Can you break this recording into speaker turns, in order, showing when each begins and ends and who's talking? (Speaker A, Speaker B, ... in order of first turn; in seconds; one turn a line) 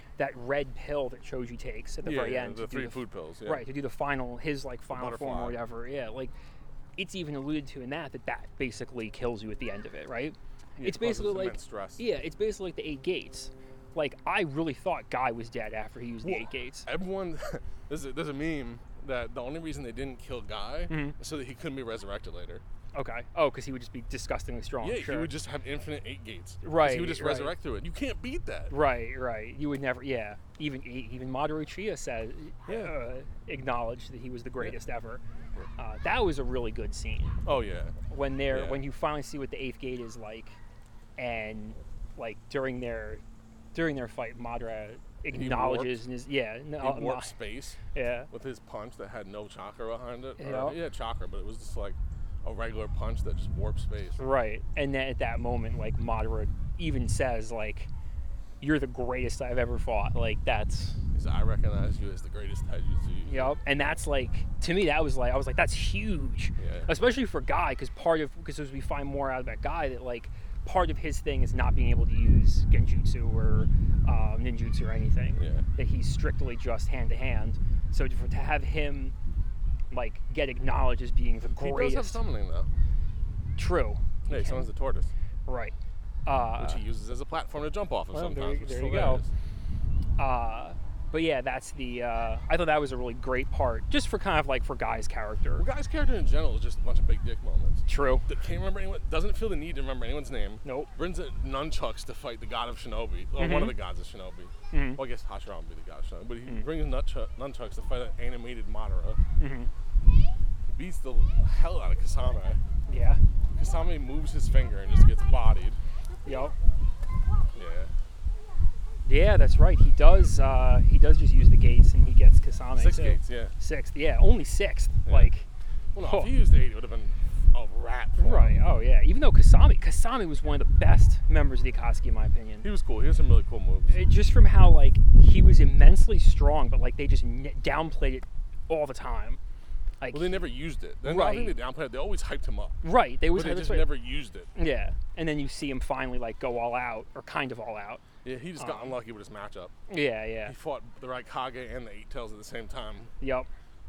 Speaker A: 0.2-6.3
Speaker B: 2.0-3.6
Speaker B: 4.9-5.6
Speaker A: 7.0-16.9
Speaker B: 10.8-12.0
Speaker B: 16.2-22.6
Speaker A: 20.9-21.1
Speaker A: 22.9-25.3
Speaker B: 24.8-28.7
Speaker A: 26.6-27.6
Speaker A: 28.7-35.2
Speaker B: 32.7-32.9
Speaker A: 35.8-37.4
Speaker B: 37.4-37.9
Speaker A: 38.1-40.6
Speaker B: 38.5-38.8
Speaker A: 41.2-43.2
Speaker A: 43.7-47.3
Speaker B: 45.3-46.0
Speaker B: 46.8-47.8
Speaker A: 47.9-48.3
Speaker B: 48.3-54.2
Speaker A: 50.4-50.8
Speaker A: 54.2-57.9
Speaker A: 58.6-61.0
Speaker B: 61.1-63.6
Speaker A: 63.3-79.1
Speaker B: 66.6-66.9
Speaker B: 75.4-75.7
Speaker A: 79.9-82.2
Speaker B: 81.6-82.7
Speaker A: 83.6-84.7
Speaker B: 84.3-85.1
Speaker A: 85.5-85.7
Speaker A: 86.3-86.8
Speaker B: 86.6-89.3
Speaker A: 88.1-89.2
Speaker A: 90.2-95.6
Speaker B: 95.6-109.2
Speaker A: 97.9-98.3
Speaker A: 100.6-100.9
Speaker A: 103.4-103.8
Speaker A: 104.7-105.0
Speaker A: 109.4-109.7
Speaker B: 110.7-112.6
Speaker A: 112.9-113.2
Speaker B: 113.5-115.8
Speaker A: 116.2-116.5
Speaker B: 117.5-117.9
Speaker A: 119.1-125.5
Speaker B: 122.7-123.5
Speaker B: 125.9-128.6
Speaker A: 126.0-126.3
Speaker A: 128.2-132.7
Speaker B: 132.6-133.9
Speaker A: 133.9-139.4
Speaker A: 140.0-140.4
Speaker B: 140.1-142.8
Speaker A: 141.0-141.6
Speaker A: 142.8-143.9
Speaker B: 143.3-144.5
Speaker A: 144.6-148.0
Speaker B: 148.2-149.7
Speaker A: 148.6-148.9
Speaker A: 149.9-150.5
Speaker B: 150.4-153.1
Speaker A: 153.2-153.5